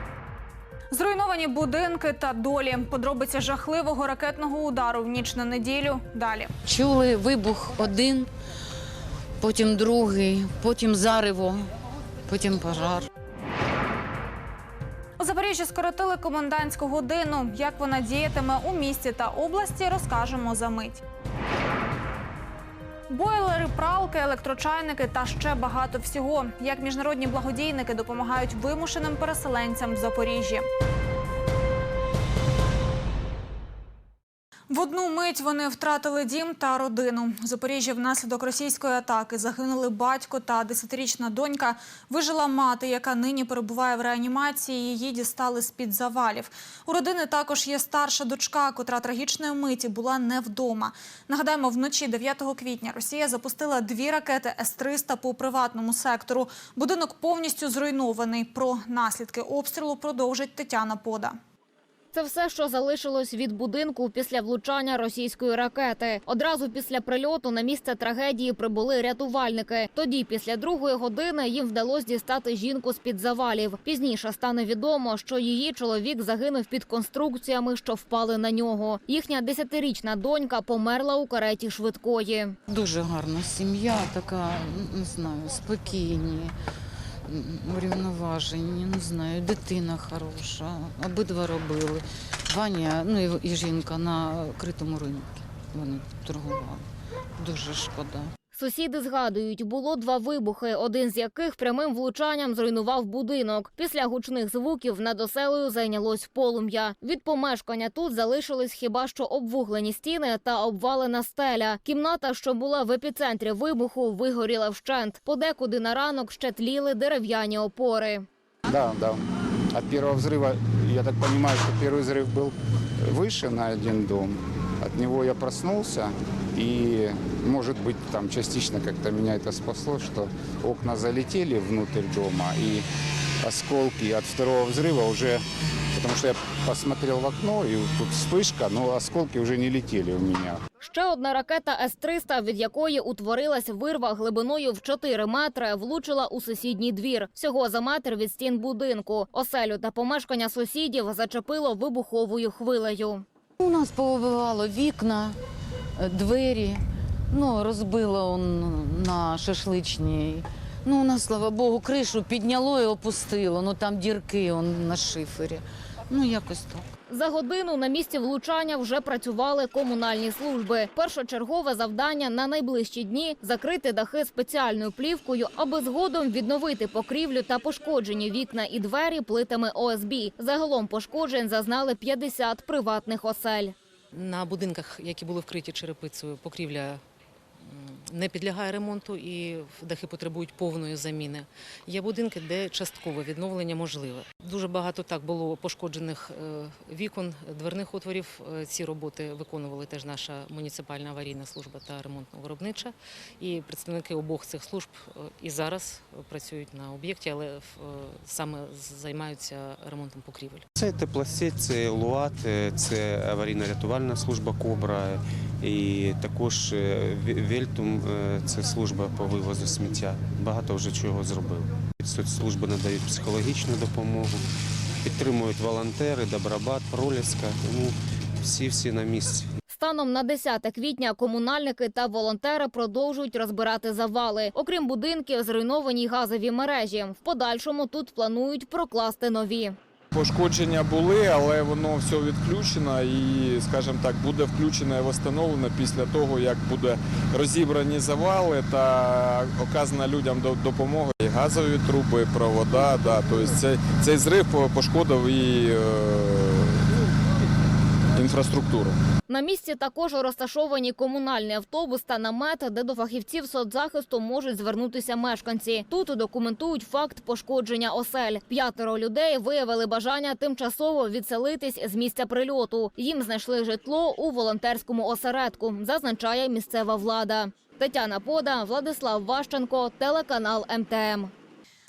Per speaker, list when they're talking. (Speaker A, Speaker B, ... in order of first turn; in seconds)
Speaker A: 0.9-6.5, 15.2-21.0, 23.1-30.6, 34.7-61.4
Speaker B: 6.6-8.3, 9.4-11.7, 12.3-13.1, 82.7-86.5, 87.3-96.8, 97.4-98.3, 153.6-155.4, 156.0-166.8
Speaker C: 62.1-82.5, 98.5-118.3, 140.8-153.2, 167.1-183.7, 229.7-239.8, 259.3-281.3
Speaker D: 118.7-119.2, 119.7-132.8, 133.4-135.4, 135.9-140.6
Speaker E: 184.1-187.0, 187.6-210.6
Speaker F: 210.8-224.4, 225.0-229.5
Speaker G: 240.1-256.9, 258.1-259.0